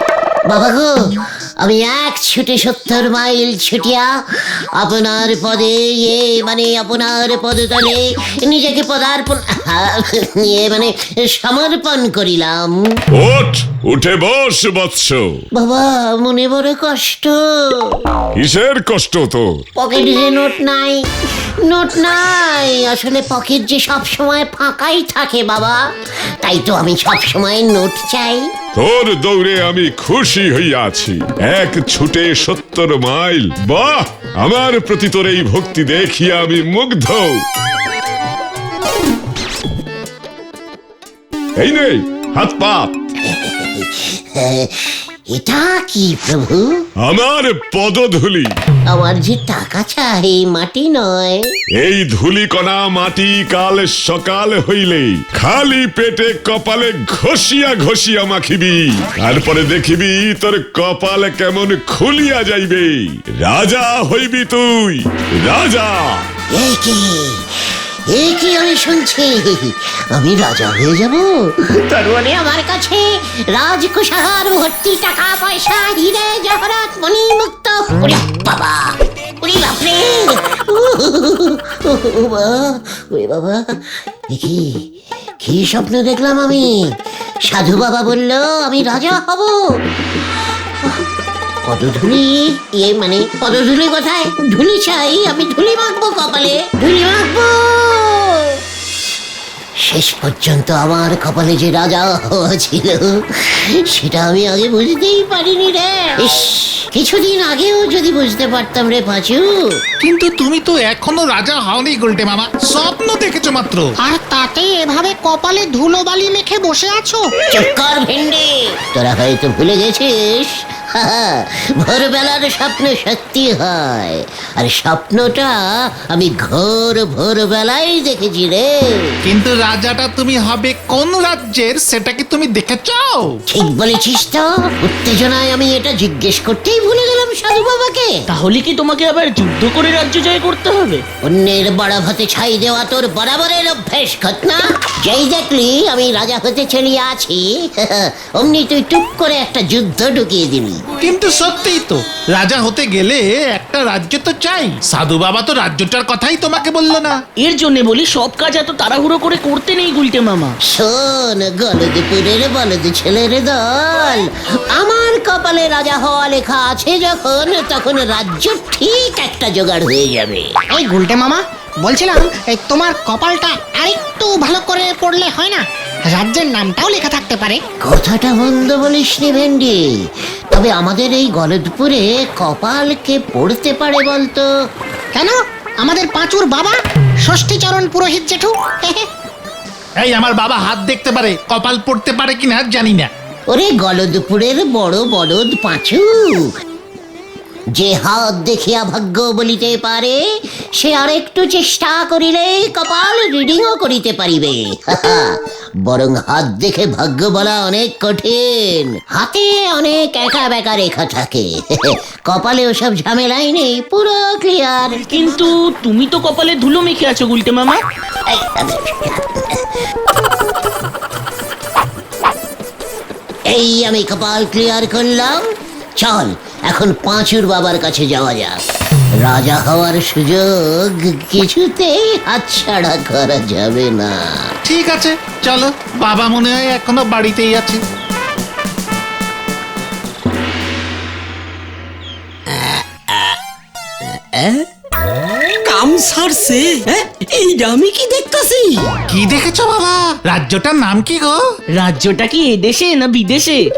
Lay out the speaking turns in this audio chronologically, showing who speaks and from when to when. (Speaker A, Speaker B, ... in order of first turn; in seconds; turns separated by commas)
Speaker A: 0.5-12.9, Speaker B: 13.1-15.4, Speaker A: 15.5-18.0, Speaker B: 18.4-19.6, Speaker A: 19.8-21.0, Speaker A: 21.6-28.5, Speaker B: 28.7-37.4, Speaker B: 41.6-42.9, Speaker A: 43.2-46.8, Speaker B: 47.0-48.5, Speaker A: 48.9-51.4, Speaker B: 51.8-66.3, Speaker A: 66.5-84.9, Speaker A: 85.4-86.8, Speaker A: 87.5-89.8, Speaker A: 91.6-98.6, Speaker A: 99.8-109.8, Speaker C: 110.0-113.9, Speaker D: 114.0-117.3, Speaker A: 117.5-125.5, Speaker A: 126.1-129.1, Speaker C: 129.2-133.3, Speaker A: 133.5-138.2, Speaker E: 138.3-141.0, Speaker A: 141.2-150.8, Speaker C: 151.0-157.2, Speaker E: 157.4-160.6, Speaker A: 160.7-170.5, Speaker D: 170.7-177.6, Speaker A: 177.8-184.5, Speaker D: 185.1-189.1, Speaker C: 190.0-193.1, Speaker A: 193.5-196.5, Speaker A: 197.8-200.2, Speaker A: 200.8-205.3, Speaker A: 205.8-215.1, Speaker E: 215.1-217.8, Speaker A: 218.3-219.6, Speaker A: 223.5-228.6, Speaker A: 229.2-234.5, Speaker C: 234.6-237.8, Speaker F: 242.5-243.4, Speaker F: 244.0-244.6, Speaker F: 245.6-248.9, Speaker C: 249.1-251.4, Speaker E: 251.8-253.6